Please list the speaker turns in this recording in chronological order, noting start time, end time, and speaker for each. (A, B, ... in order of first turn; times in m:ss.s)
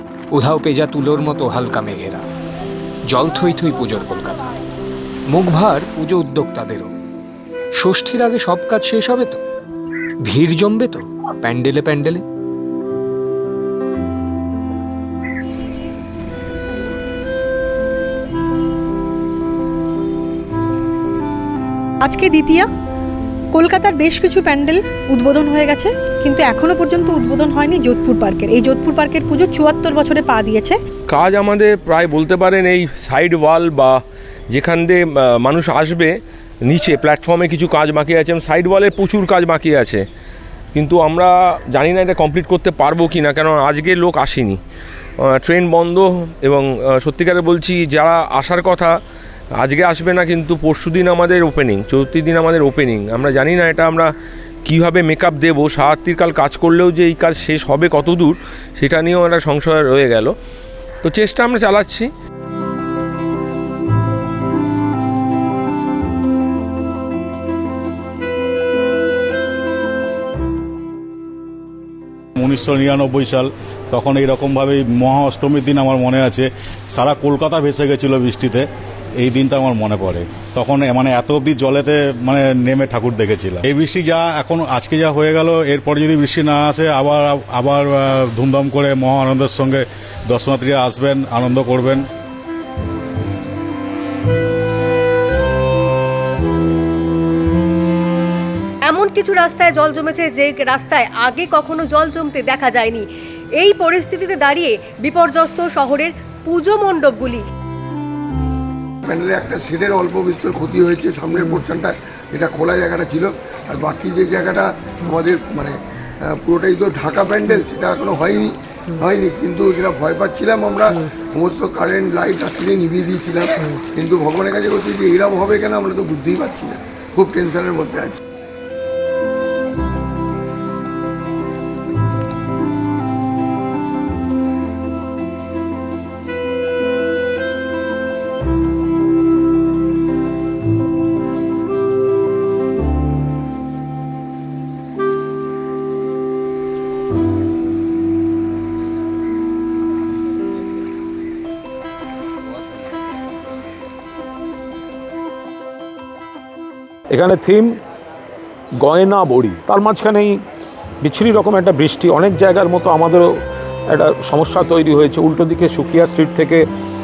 0:00.3-0:02.2 A
0:03.1-0:04.4 A
0:05.3-0:06.9 A
0:07.8-0:09.4 A
0:10.3-0:12.2 A
0:22.0-0:22.7 B
0:23.5-0:30.8 B
0:31.1-0:34.0 C
0:34.5-0:36.1 C
0:36.7-0:40.0 C
0:40.8-0:44.6 C
0:45.2-0:49.0 C
0:49.6-0:54.1 C
0:54.7-1:00.3 C
1:01.0-1:02.1 C
1:12.4-1:18.7 D
1:19.2-1:32.0 D
1:38.8-1:47.4 E
1:49.0-2:08.2 F
2:37.1-2:37.8 G
2:38.8-2:40.4 G
2:41.0-2:46.7 G